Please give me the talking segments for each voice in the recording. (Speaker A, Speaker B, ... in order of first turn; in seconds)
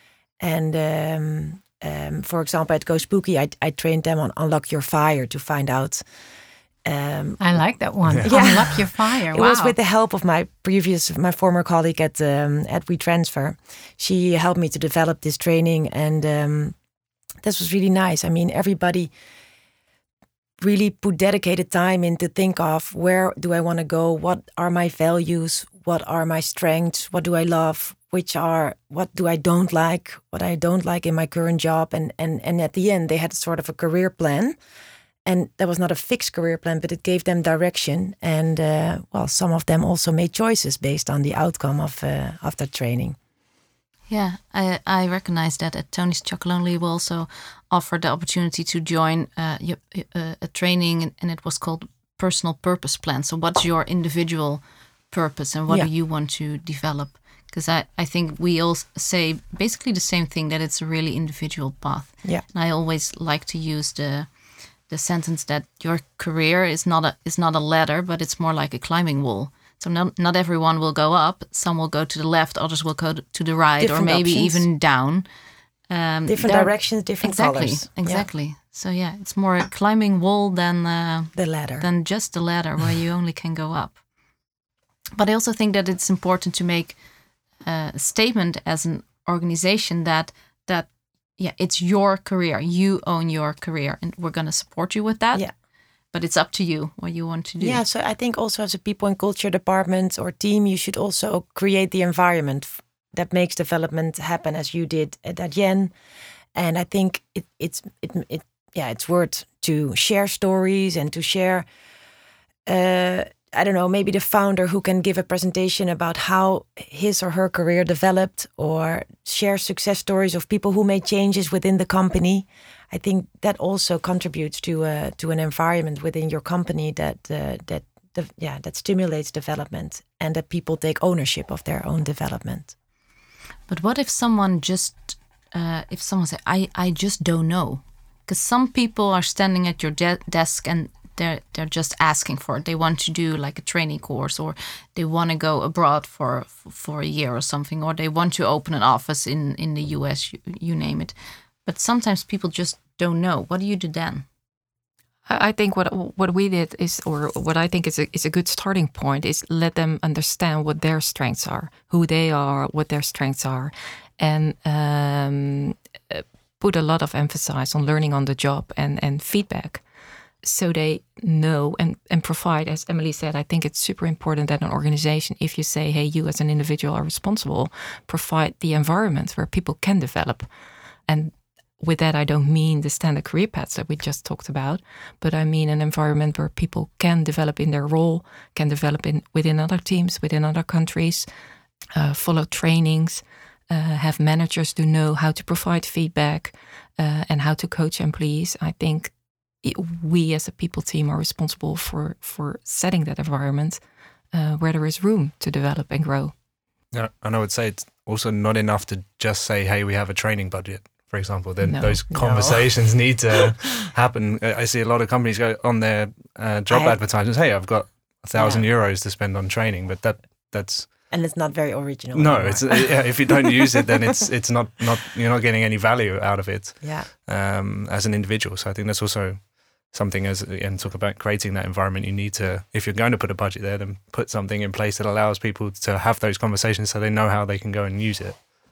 Speaker A: 0.4-6.0, 6.8-7.4, 8.2-16.8, 17.4-19.1, 20.6-34.6, 35.2-43.2, 73.8-74.7, 76.3-78.3, 81.4-81.9, 97.6-105.9, 106.5-111.7, 112.7-132.7, 212.1-213.5, 216.7-217.0, 218.3-218.7, 221.1-224.0, 226.8-227.1
Speaker B: 7.4-9.8
Speaker C: 44.1-64.3, 64.9-75.3, 75.9-84.0, 85.2-87.0, 87.6-95.5, 96.1-97.8, 133.7-154.2
Speaker D: 155.3-169.8, 170.4-180.5, 181.1-191.3, 191.9-203.8, 204.3-206.3, 211.6-212.1
Speaker E: 206.9-221.0, 222.1-238.4